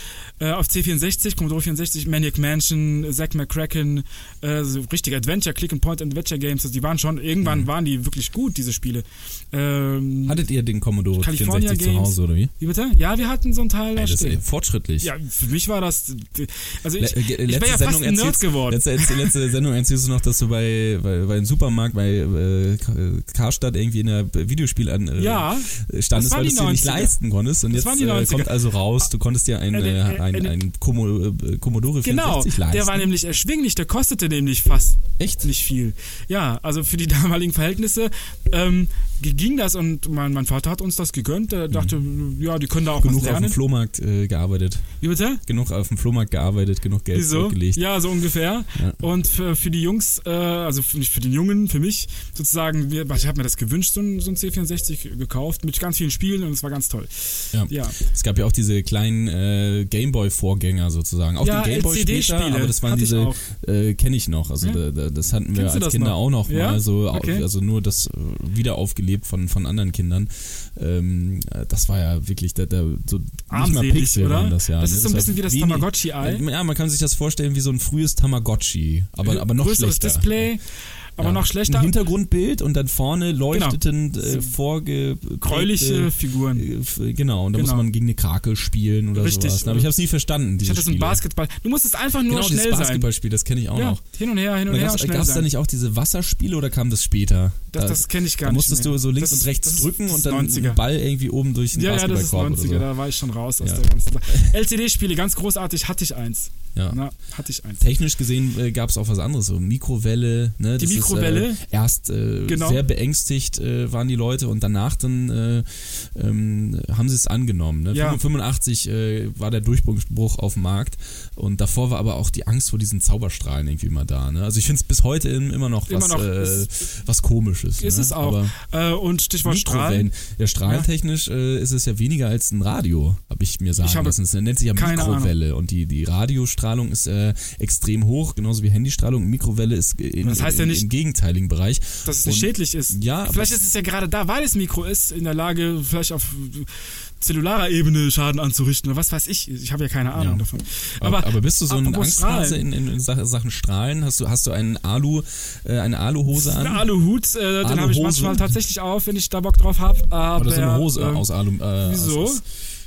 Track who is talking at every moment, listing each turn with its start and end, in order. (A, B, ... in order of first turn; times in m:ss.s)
0:00.4-0:10.4 A
0:07.4-0:07.7 B
0:10.2-0:12.5 B
0:11.2-0:14.4 A
0:14.0-0:15.1 B
0:15.0-0:19.4 A
0:17.0-0:33.1 B
0:25.2-0:27.2 A
0:27.7-0:29.0 A
0:29.7-0:30.6 A
0:32.0-0:43.6 A
0:35.2-0:35.5 B
0:41.7-0:42.0 B
0:43.0-0:44.9 B
0:45.0-0:45.4 A
0:45.5-0:47.9 B
0:47.1-0:58.0 A
0:57.5-1:20.5 B
1:01.4-1:03.4 A
1:05.5-1:07.4 A
1:13.5-1:16.4 A
1:19.2-1:20.6 A
1:21.2-1:21.9 A
1:21.2-1:31.2 B
1:23.5-1:24.5 A
1:25.4-1:26.7 A
1:27.5-1:27.9 A
1:29.2-1:29.9 A
1:30.6-1:33.1 A
1:32.3-1:34.0 B
1:33.7-1:35.5 A
1:34.7-1:42.9 B
1:37.7-1:40.8 A
1:41.7-1:47.9 A
1:43.6-1:44.5 B
1:46.8-1:47.0 B
1:47.8-2:08.6 B
1:50.8-1:51.6 A
1:52.5-1:52.8 A
1:57.9-1:58.2 A
2:05.9-2:06.7 A
2:07.8-2:10.1 A
2:09.4-2:23.6 B
2:13.8-2:14.2 A
2:14.7-2:15.3 A
2:20.2-2:20.9 A
2:22.0-2:32.6 A
2:30.2-2:30.4 B
2:31.0-2:36.9 B
2:36.4-2:41.3 A
2:37.6-2:38.5 B
2:40.4-2:42.4 B
2:41.8-2:42.4 A